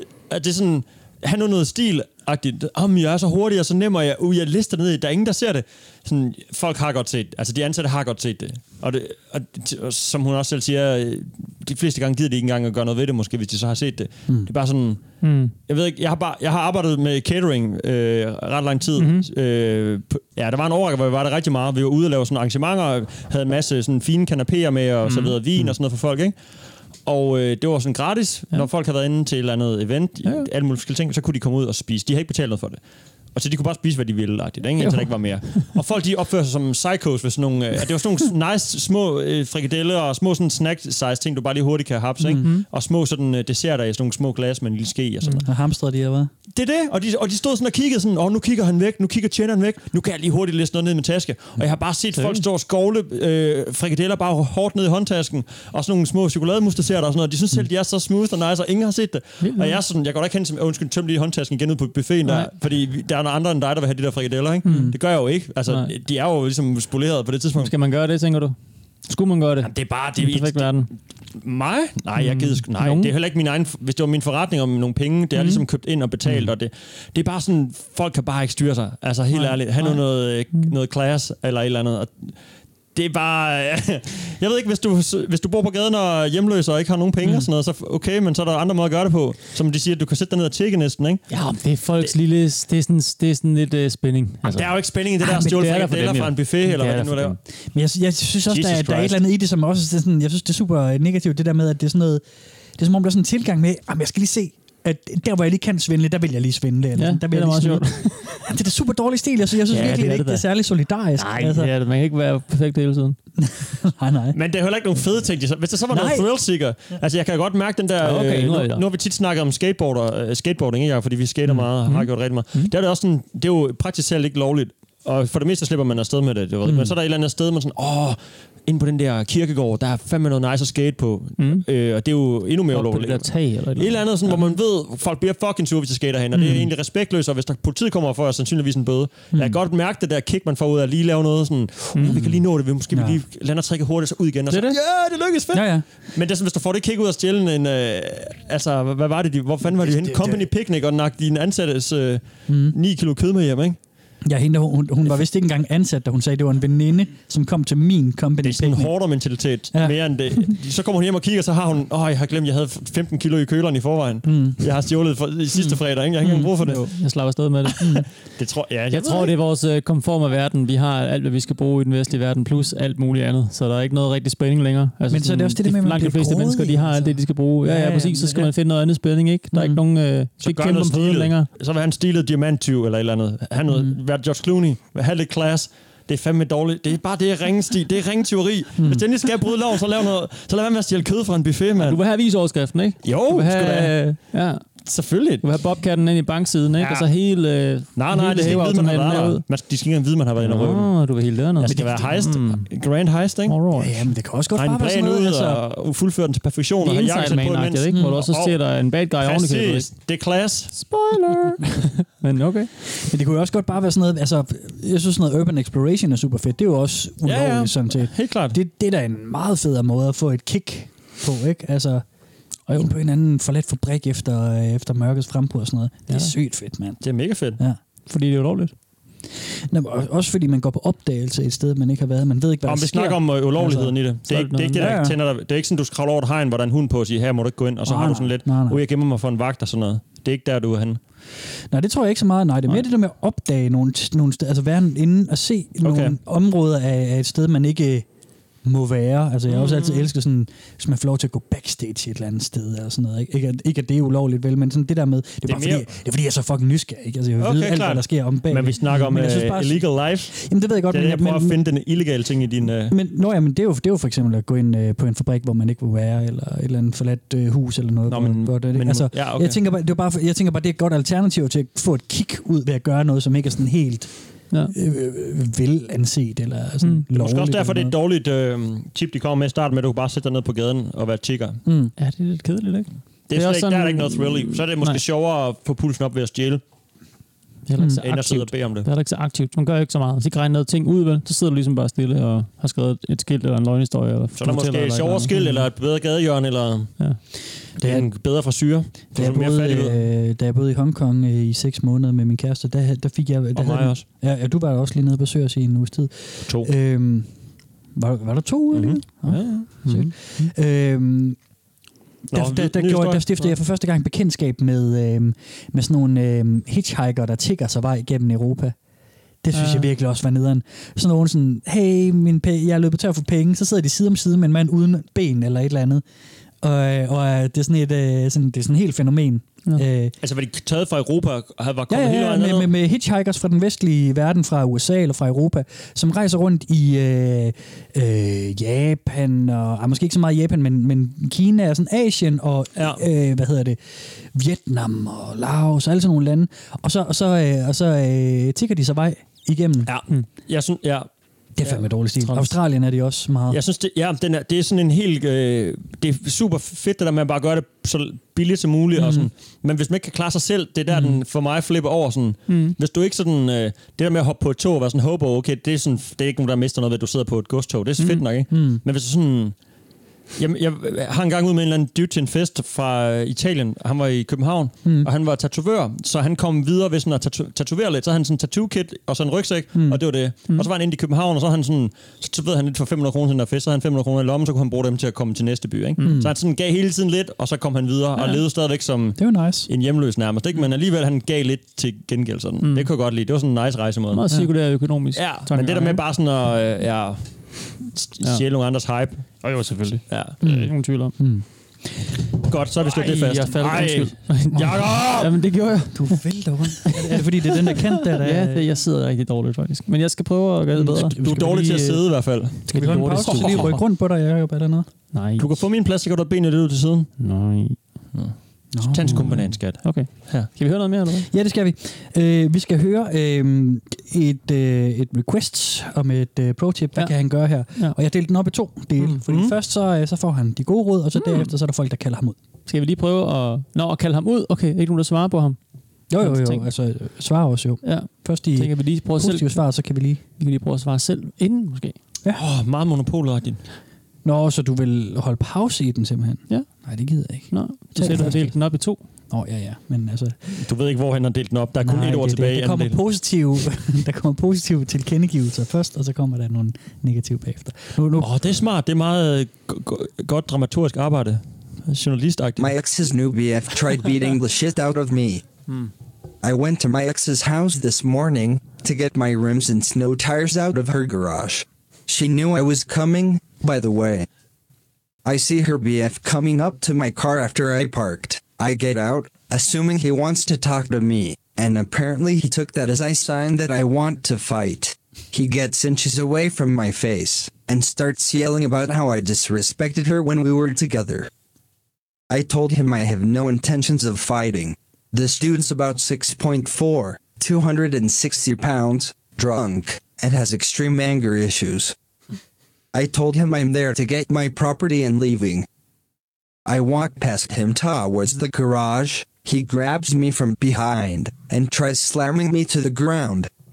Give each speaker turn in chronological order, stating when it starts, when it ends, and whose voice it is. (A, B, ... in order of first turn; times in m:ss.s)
0:00.3-0:15.0 A
0:15.2-0:15.5 B
0:15.7-0:26.4 A
0:19.0-0:19.3 B
0:25.0-0:25.4 B
0:27.0-0:32.8 A
0:30.2-0:30.5 B
0:33.3-0:45.5 A
0:34.8-0:35.7 B
0:42.2-0:42.5 C
0:42.3-0:42.6 B
0:45.4-0:46.3 C
0:46.5-1:07.7 A
0:52.2-0:52.5 B
0:59.4-0:59.8 B
1:02.2-1:02.5 B
1:04.6-1:05.0 B
1:04.7-1:05.0 C
1:05.7-1:05.9 B
1:07.6-1:08.6 B
1:09.1-1:10.9 B
1:09.6-1:10.8 A
1:11.4-1:22.4 A
1:12.2-1:13.1 B
1:15.4-1:15.6 B
1:19.3-1:20.7 B
1:23.0-1:31.2 A
1:31.3-1:37.4 B
1:34.4-1:37.4 A
1:37.7-1:42.2 C
1:38.5-1:39.2 A
1:42.8-1:51.7 C
1:47.0-1:48.4 B
1:49.7-1:50.4 B
1:51.2-1:53.2 B
1:53.4-1:54.4 C
1:54.3-2:33.8 A
1:55.9-1:56.3 C
1:58.0-1:58.9 B
2:01.5-2:02.7 B
2:06.7-2:06.9 B
2:11.4-2:11.7 B
2:12.7-2:14.5 B
2:16.4-2:16.7 C
2:19.3-2:19.6 C
2:22.0-2:22.3 B
2:22.0-2:22.4 C
2:22.9-2:23.2 C
2:25.5-2:25.8 C
2:29.8-2:30.5 C
2:32.5-2:32.8 C
2:34.2-2:38.9 C
2:38.4-2:46.9 A
2:39.7-2:40.5 C
2:44.3-2:44.6 C
2:46.3-2:48.1 B
2:47.8-2:48.1 C
2:48.4-2:49.3 A
2:48.9-3:01.5 B
2:55.1-2:58.5 C
3:00.4-3:12.0 A
3:08.8-3:09.0 C
3:11.8-3:14.8 B
3:13.0-3:14.2 A
3:14.8-3:15.4 A
3:15.4-3:19.4 B
3:16.8-3:17.1 A
3:18.0-3:23.6 A
3:20.4-3:22.7 B
3:21.7-3:22.2 C
3:23.5-3:24.1 B
3:23.8-3:25.6 C
3:24.6-3:28.6 A
3:26.8-3:29.9 B
3:27.9-3:28.2 C
3:29.2-3:30.7 A
3:30.7-3:32.7 B
3:33.0-3:42.0 C
3:37.2-3:38.6 A
3:42.7-3:47.0 C
3:46.1-3:46.3 B
3:47.0-3:47.6 A
3:48.1-3:48.7 B
3:49.7-3:53.9 C
3:52.6-4:01.0 A
3:54.2-3:55.0 B
3:54.8-3:55.2 C
3:57.8-3:58.8 C
4:01.7-4:08.1 C
4:05.8-4:06.2 A
4:08.6-4:21.6 C
4:09.5-4:10.0 A
4:15.5-4:15.9 A
4:17.4-4:23.0 A
4:22.9-4:34.1 C
4:28.1-4:29.6 A
4:34.7-4:37.9 C
4:36.8-4:37.1 B
4:37.1-4:41.6 A
4:41.7-4:41.9 C
4:42.0-4:45.0 B
4:43.3-4:46.6 A
4:47.7-4:55.7 B
4:48.0-4:48.9 A
4:54.4-4:56.9 A
4:57.8-4:58.1 C
4:57.8-5:00.0 A
4:59.1-5:07.3 C
5:03.6-5:04.0 A
5:08.0-5:11.4 C
5:08.7-5:09.7 A
5:09.8-5:10.1 B
5:12.3-5:13.5 A
5:12.3-5:18.8 C
5:19.4-5:26.0 C
5:19.5-5:19.9 B
5:26.6-5:30.1 C
5:30.2-5:32.7 A
5:31.9-5:43.8 C
5:42.8-5:43.0 A
5:44.3-5:49.9 C
5:49.8-5:51.1 A
5:51.6-5:53.6 C
5:53.5-6:09.6 A
5:59.0-5:59.3 C
6:02.5-6:02.8 B
6:08.5-6:08.8 C
6:10.4-6:34.2 A
6:14.8-6:15.1 C
6:19.7-6:20.0 C
6:26.0-6:26.2 B
6:26.0-6:26.3 C
6:29.2-6:29.7 C
6:32.6-6:32.9 B
6:34.1-6:36.0 B
6:35.2-6:37.3 A
6:37.8-6:39.4 A
6:39.4-6:41.1 B
6:40.1-6:40.4 A
6:40.4-6:41.4 C
6:42.4-6:45.3 A
6:42.9-6:46.2 B
6:44.6-6:44.8 C
6:45.9-6:48.6 C
6:46.8-6:51.8 B
6:50.8-6:52.0 C
6:51.2-6:53.8 A
6:52.7-6:54.9 C
6:52.7-6:53.8 B
6:55.1-6:55.6 B
6:55.4-6:57.1 A
6:57.2-6:57.8 B
6:58.7-6:59.6 C
6:58.9-7:00.5 A
6:59.0-7:01.3 B
7:01.3-7:12.4 C
7:09.2-7:09.5 A
7:11.2-7:11.5 B
7:12.7-7:15.6 B
7:16.1-7:20.2 C
7:16.2-7:16.6 B
7:17.8-7:19.6 B
7:20.4-7:22.0 B
7:22.3-7:23.6 A
7:24.2-7:28.6 C
7:27.5-7:29.0 B
7:29.3-7:30.4 C
7:30.5-7:33.0 A
7:31.8-7:38.3 C
7:38.2-7:42.7 A
7:42.6-7:45.4 D
7:46.4-7:54.3 D
7:55.2-8:11.3 D
8:12.3-8:21.9 D
8:22.9-8:25.7 D
8:26.7-8:33.5 D